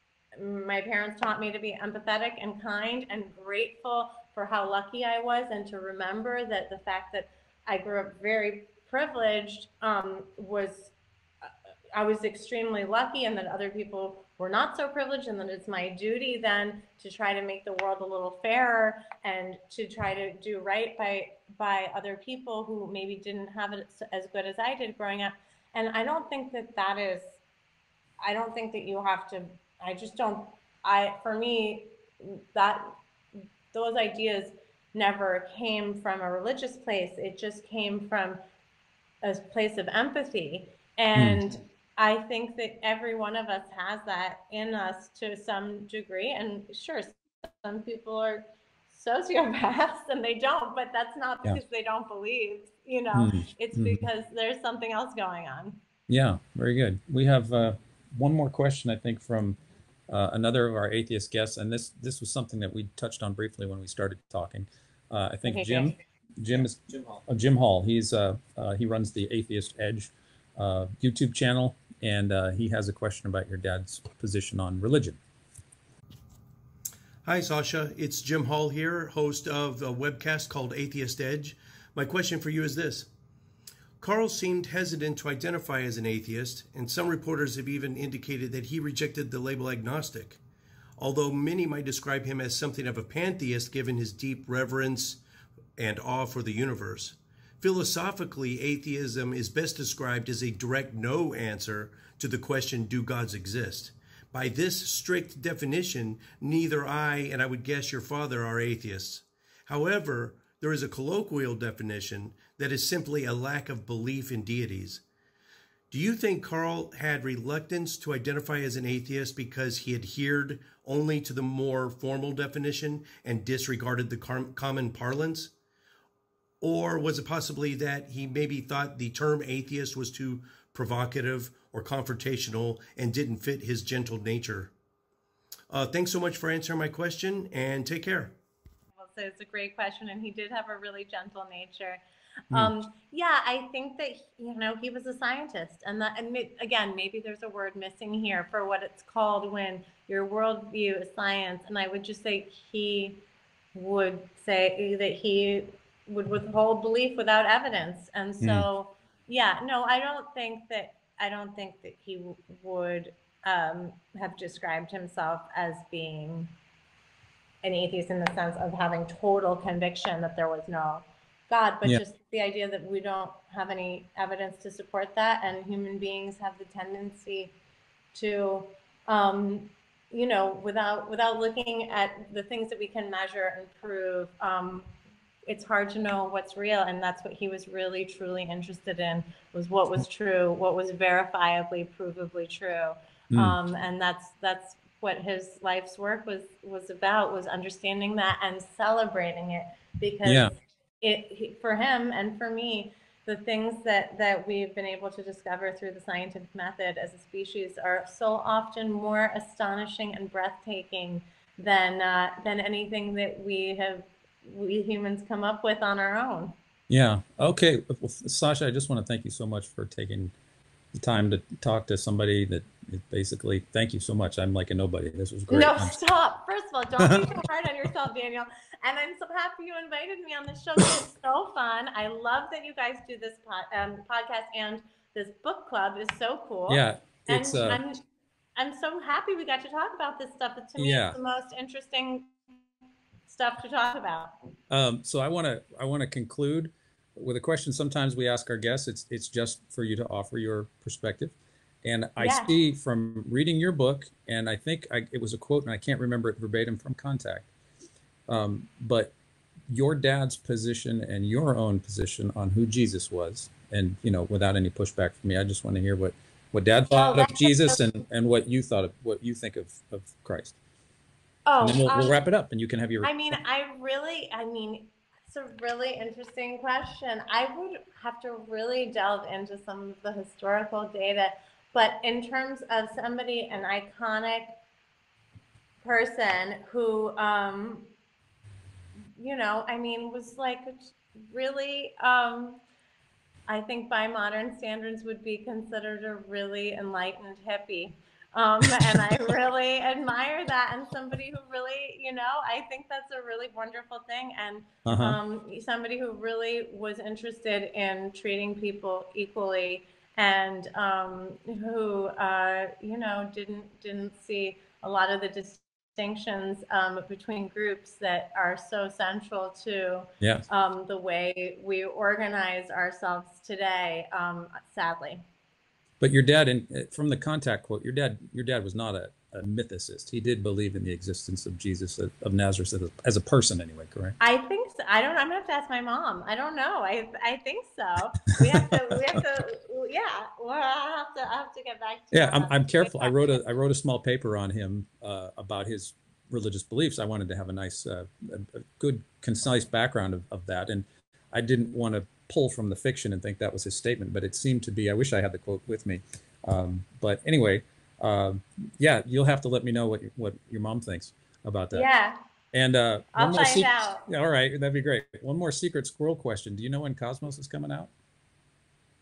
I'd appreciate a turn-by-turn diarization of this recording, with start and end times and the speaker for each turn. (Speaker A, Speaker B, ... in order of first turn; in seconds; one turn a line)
Speaker A: 0.3-27.4
Speaker A: 28.2-38.4
Speaker A: 39.2-55.8
Speaker B: 41.1-41.5
Speaker B: 53.1-54.0
Speaker B: 56.1-75.2
Speaker A: 65.5-66.0
Speaker C: 77.2-83.1
Speaker C: 84.0-90.4
Speaker C: 91.0-95.2
Speaker C: 95.8-115.0
Speaker C: 115.9-125.5
Speaker C: 126.6-134.7
Speaker C: 135.7-138.3
Speaker A: 138.9-166.5
Speaker B: 158.4-158.7
Speaker A: 167.6-177.5
Speaker A: 178.1-184.9
Speaker A: 185.4-216.6
Speaker B: 200.2-200.5
Speaker B: 216.9-220.3
Speaker B: 220.9-225.9
Speaker A: 225.5-238.0
Speaker B: 227.0-227.3
Speaker B: 236.7-237.8
Speaker A: 238.6-242.4
Speaker B: 240.8-241.2
Speaker A: 243.3-244.3
Speaker B: 244.7-257.5
Speaker A: 252.2-252.5
Speaker B: 258.3-259.1
Speaker B: 259.7-270.6
Speaker A: 266.9-267.8
Speaker A: 271.4-272.2
Speaker B: 271.6-273.4
Speaker A: 273.0-284.6
Speaker A: 285.8-287.9
Speaker A: 289.1-292.6
Speaker A: 293.5-325.2
Speaker B: 298.7-299.0
Speaker B: 304.9-305.2
Speaker B: 326.0-334.2
Speaker A: 334.2-343.4
Speaker B: 338.4-339.2
Speaker B: 342.1-361.9
Speaker A: 361.7-362.2
Speaker B: 362.5-367.9
Speaker A: 363.1-364.1